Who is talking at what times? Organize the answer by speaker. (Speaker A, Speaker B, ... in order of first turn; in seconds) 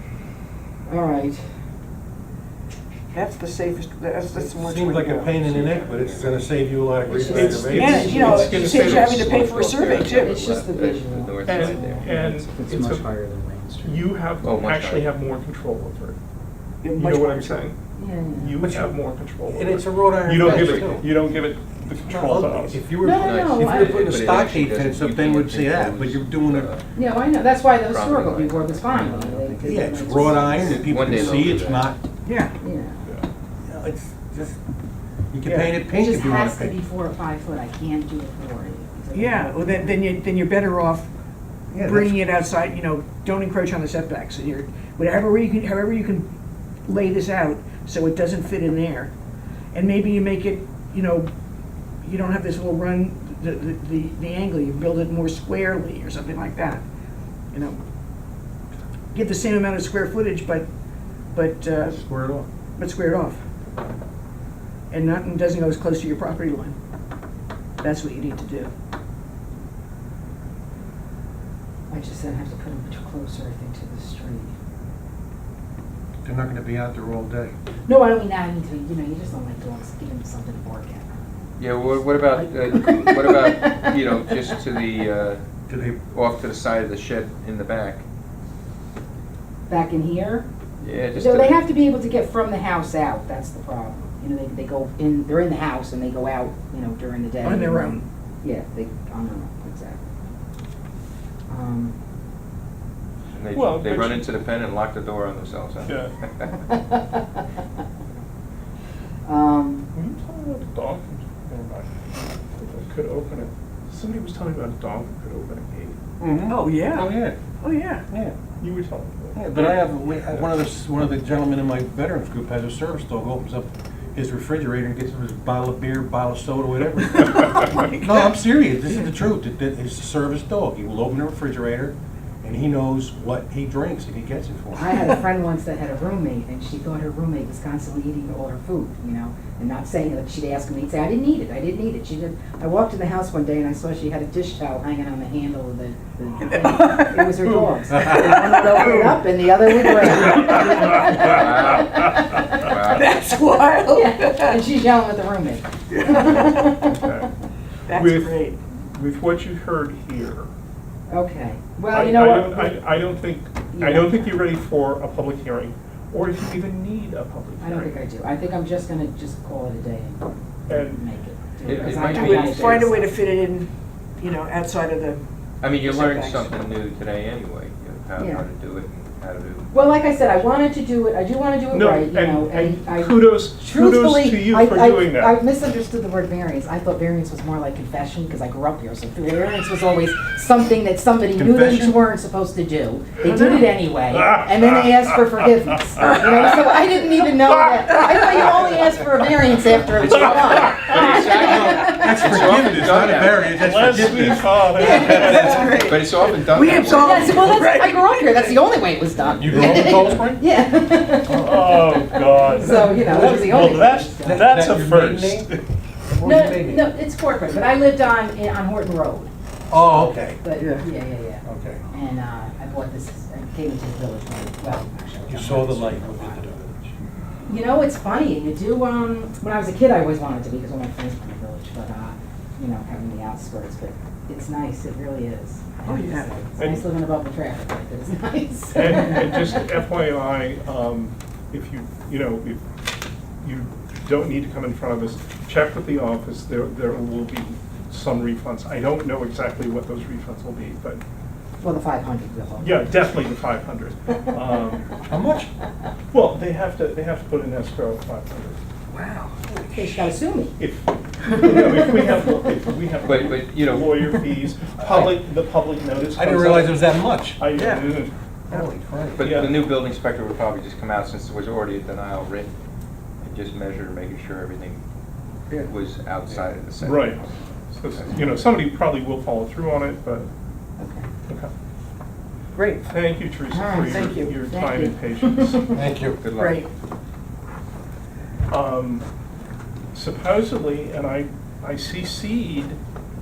Speaker A: 0.9-1.4, 7.1-8.9, 10.0-12.1, 18.0-18.6, 23.0-24.2, 26.9-30.8, 32.6-33.0, 35.9-39.9, 71.9-74.5, 77.9-81.5, 82.7-84.4, 89.7-90.5, 91.1-100.0, 101.5-102.0, 106.7-107.5, 109.2-109.9, 134.8-152.8, 153.9-157.1, 161.1-162.8, 163.7-164.4, 167.6-173.2, 178.2-178.4, 179.7-202.2, 204.7-205.8, 206.9-214.5, 216.2-226.4, 227.5-239.8, 251.6-252.9, 259.7-260.6, 261.3-262.2, 280.8-281.1, 283.5-285.7
Speaker B: 3.1-5.3, 7.7-10.3, 16.8-17.7, 32.2-32.5, 35.5-35.8, 39.1-41.1, 41.7-46.3, 46.9-49.1, 49.7-51.3, 52.0-56.8, 57.5-57.8, 59.1-60.7, 61.3-62.0, 62.8-63.4, 64.9-66.8, 67.8-68.7, 97.4-98.0, 116.5-118.0, 127.8-128.3, 146.4-147.4, 148.0-149.2, 152.9-154.6, 155.9-156.7, 157.9-158.6, 172.1-173.7, 174.2-175.2, 175.8-176.6, 205.0-208.2, 220.6-220.9, 235.8-236.3, 258.9-259.9, 267.5-267.9, 282.6-282.9, 283.8-284.4, 286.4-286.7
Speaker C: 4.6-8.2, 18.6-21.2, 22.0-26.7, 29.6-32.0, 33.6-34.6, 35.3-36.8, 41.7-42.1, 61.8-62.5, 76.2-77.5, 85.7-86.0, 116.2-117.4, 118.1-118.3, 119.3-135.2, 191.4-192.0, 201.7-205.5, 209.4-210.4, 212.7-215.5, 216.1-216.9, 219.7-220.4, 221.4-221.8, 225.3-226.9, 255.1-255.5, 264.8-265.2, 266.1-267.4, 268.5-269.4, 285.7-286.2
Speaker D: 5.4-6.4, 8.3-12.1, 14.4-15.2, 20.3-21.0, 23.2-26.8, 27.8-29.2, 30.5-31.9, 81.6-85.4, 86.0-88.0, 90.8-91.6, 103.3-106.5, 151.1-153.1, 171.7-172.9, 175.6-180.6, 200.0-203.5, 205.7-207.5, 263.0-264.2, 269.2-272.5, 273.2-274.8, 275.6-277.3, 286.2-286.7
Speaker E: 7.2-9.4, 11.5-13.1, 13.8-16.2, 16.9-17.8, 18.3-22.8, 103.5-104.3, 105.8-106.2, 109.9-111.9, 112.6-116.0, 118.6-119.8, 156.2-157.3, 157.9-160.5, 161.9-168.0, 170.7-171.0, 171.7-172.0, 181.7-185.4, 194.1-195.0, 196.0-196.5, 200.7-201.2, 202.6-205.8, 211.3-215.6, 236.6-236.8, 238.7-242.6, 243.4-251.0, 252.6-254.9, 256.1-258.6, 260.6-266.8, 267.4-268.1, 269.2-269.6, 276.8-280.3, 282.8-285.7, 288.5-289.0, 289.9-292.8
Speaker F: 12.2-14.2, 29.0-29.7